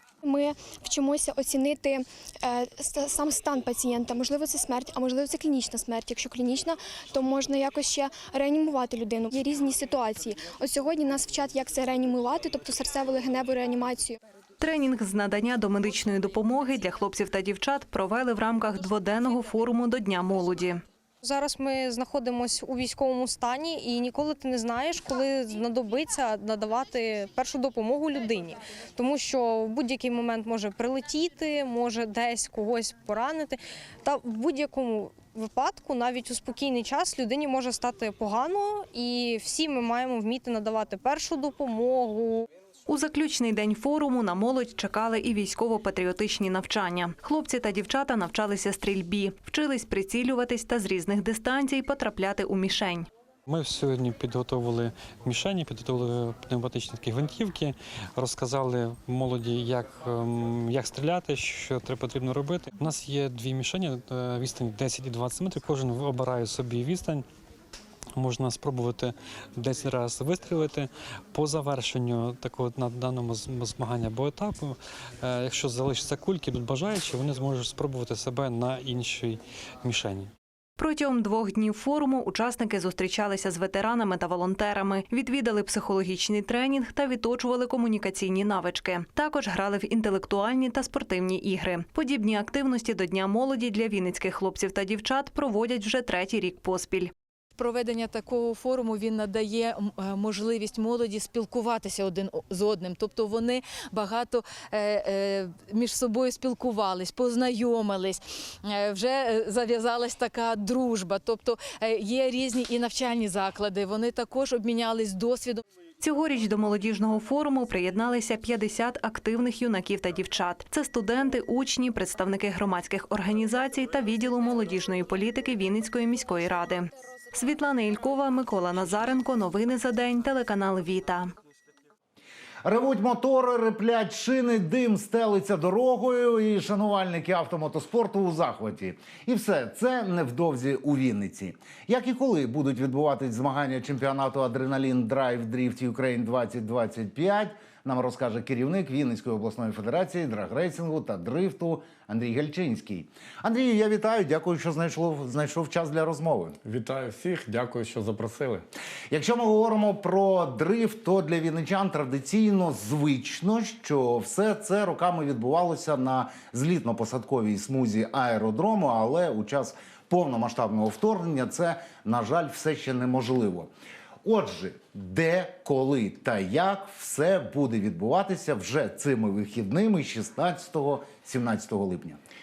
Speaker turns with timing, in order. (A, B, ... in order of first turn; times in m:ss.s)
0:00.2-0:14.2 A
0:14.6-0:20.8 B
0:21.2-0:42.5 C
0:42.9-0:53.1 B
0:53.5-1:07.2 D
1:08.2-1:20.3 D
1:20.8-1:37.1 B
1:37.6-1:55.6 E
1:56.0-2:11.3 B
2:12.6-2:36.6 F
2:36.6-2:38.6 G
2:39.1-2:53.7 F
2:54.2-3:02.2 F